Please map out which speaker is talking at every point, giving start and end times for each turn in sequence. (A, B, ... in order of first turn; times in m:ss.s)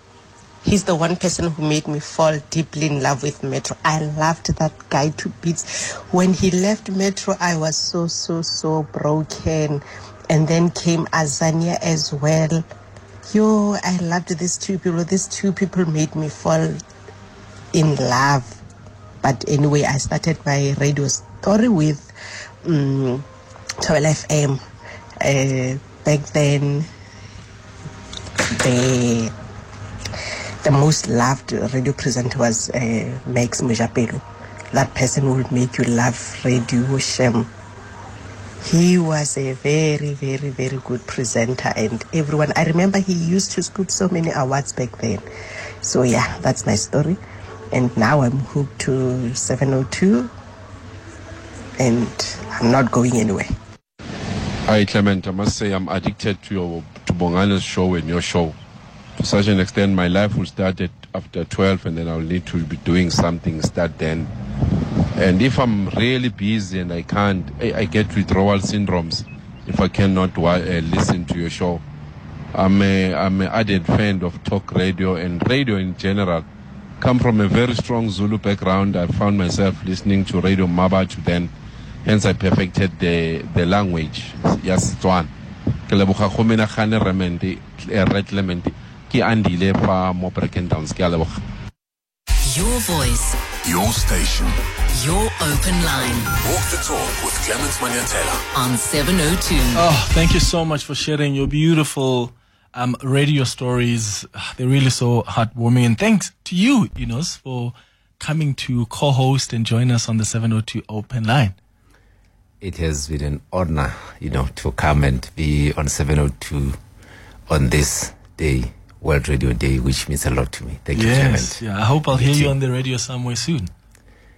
0:00.6-0:12.6 A
0:13.3-0:16.7 A
0:17.7-0:18.6 A
0:19.2-0:22.1 A
0:22.7-0:23.2 A
0:23.8-0:24.6 A
0:25.2-0:26.9 A
0:28.6-0:29.3 A
0:30.6-0:34.2 A
0:34.7-0:37.5 A
0:38.6-0:45.2 A
0:45.8-0:47.2 A
0:47.7-0:50.3 A
0:51.8-0:53.5 A
0:54.7-0:58.6 B
0:59.2-1:04.3 B
1:05.2-1:11.8 B
1:12.5-1:16.4 B
1:17.0-1:21.5 B
1:22.0-1:25.3 B
1:25.9-1:31.4 B
1:32.4-1:33.4 C
1:33.6-1:34.6 D
1:34.9-1:36.3 C
1:36.4-1:38.4 D
1:38.5-1:39.8 C
1:39.8-1:51.6 E
1:52.6-1:56.8 F
1:57.5-2:02.6 F
2:00.9-2:03.7 E